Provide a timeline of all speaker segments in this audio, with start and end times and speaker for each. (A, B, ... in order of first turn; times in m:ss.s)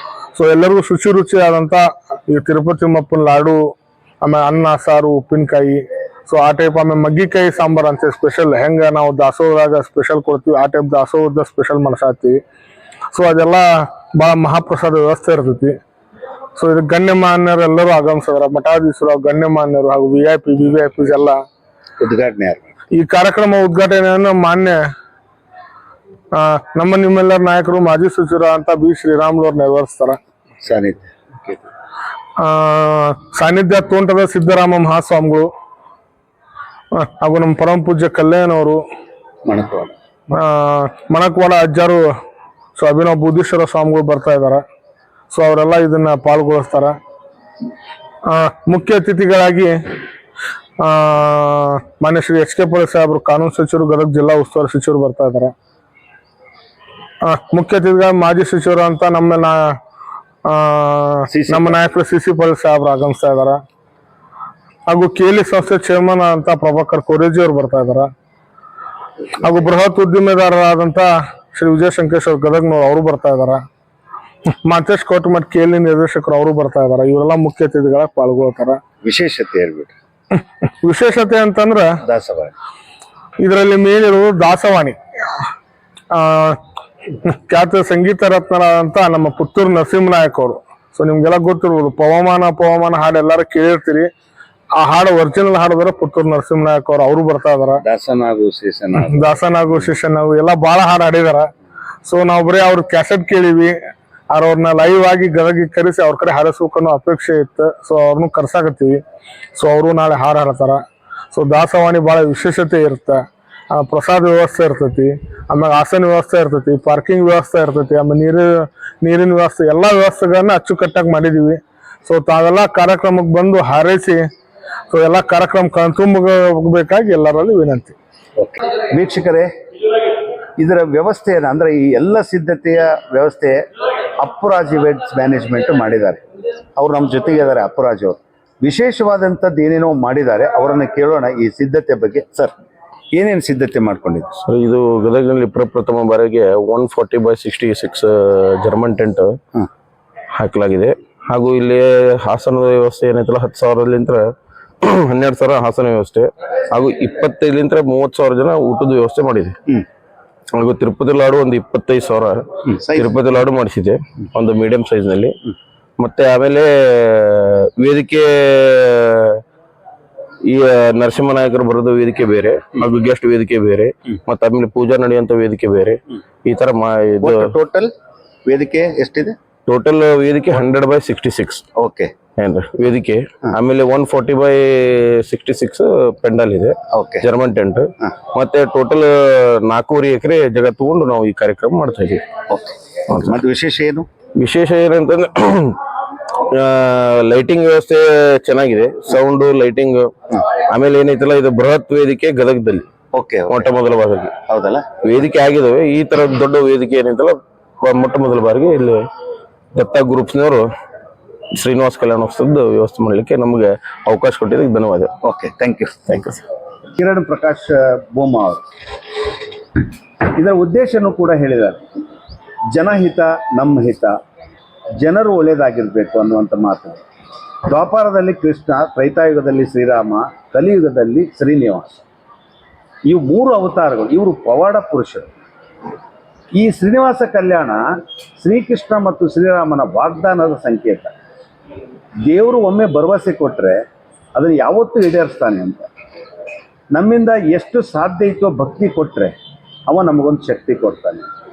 0:00.3-0:03.6 A
0:04.2-0:12.4 A
0:13.1-0:15.7 A
0:16.6-0:21.4 A
0:22.0-0:22.7 B
0:22.9-0:24.8 A
0:26.3-0:30.2 A
0:30.6-0:31.6 B
0:32.4-0:35.5 A
0:36.9-0:38.8 A
0:39.5-0:39.9 B
0:40.3-0:42.0 A
0:42.8-0:44.6 A
0:45.3-0:46.9 A
0:48.3-0:49.8 A
0:50.8-0:55.5 A
0:57.2-0:59.8 A
1:00.5-1:03.6 A
1:01.3-1:01.8 B
1:04.9-1:08.1 A
1:09.4-1:13.6 A
1:14.6-1:18.8 A
1:19.0-1:19.9 B
1:20.8-1:21.9 A
1:22.1-1:22.5 B
1:23.4-1:25.0 A
1:26.1-1:26.6 A
1:27.2-1:34.1 A
1:34.8-1:37.8 A
1:37.8-1:39.4 B
1:39.0-1:41.5 A
1:42.0-1:43.8 A
1:44.3-1:49.0 A
1:49.6-1:50.8 A
1:51.3-2:04.2 A
2:04.9-2:08.0 A
2:08.4-2:09.5 B
2:10.6-2:13.6 B
2:14.2-2:16.2 B
2:16.8-2:22.5 B
2:23.1-2:24.4 B
2:24.5-2:29.4 C
2:30.3-2:34.2 C
2:34.8-2:39.6 C
2:40.5-2:45.4 C
2:42.7-2:43.2 B
2:46.0-2:49.4 C
2:50.5-2:57.5 C
2:57.2-2:57.9 B
2:58.5-2:59.4 B
2:59.7-3:01.6 C
3:01.8-3:02.1 B
3:02.4-3:12.2 C
3:06.9-3:07.3 B
3:12.5-3:14.1 B
3:13.1-3:13.4 C
3:14.4-3:15.8 C
3:16.4-3:22.9 C
3:23.1-3:23.7 B
3:23.5-3:24.4 C
3:24.5-3:24.9 B
3:25.0-3:29.1 C
3:29.7-3:30.6 C
3:31.5-3:35.1 C
3:35.2-3:36.2 B
3:36.1-3:36.4 C
3:37.0-3:38.6 B
3:40.3-3:41.8 B
3:42.7-3:44.2 B
3:45.0-3:47.0 B
3:47.7-3:52.0 B
3:53.1-3:55.3 B
3:56.5-3:57.8 B
3:58.4-4:01.1 B
4:02.2-4:03.8 B
4:04.3-4:05.9 B
4:06.9-4:09.3 B
4:09.9-4:11.3 B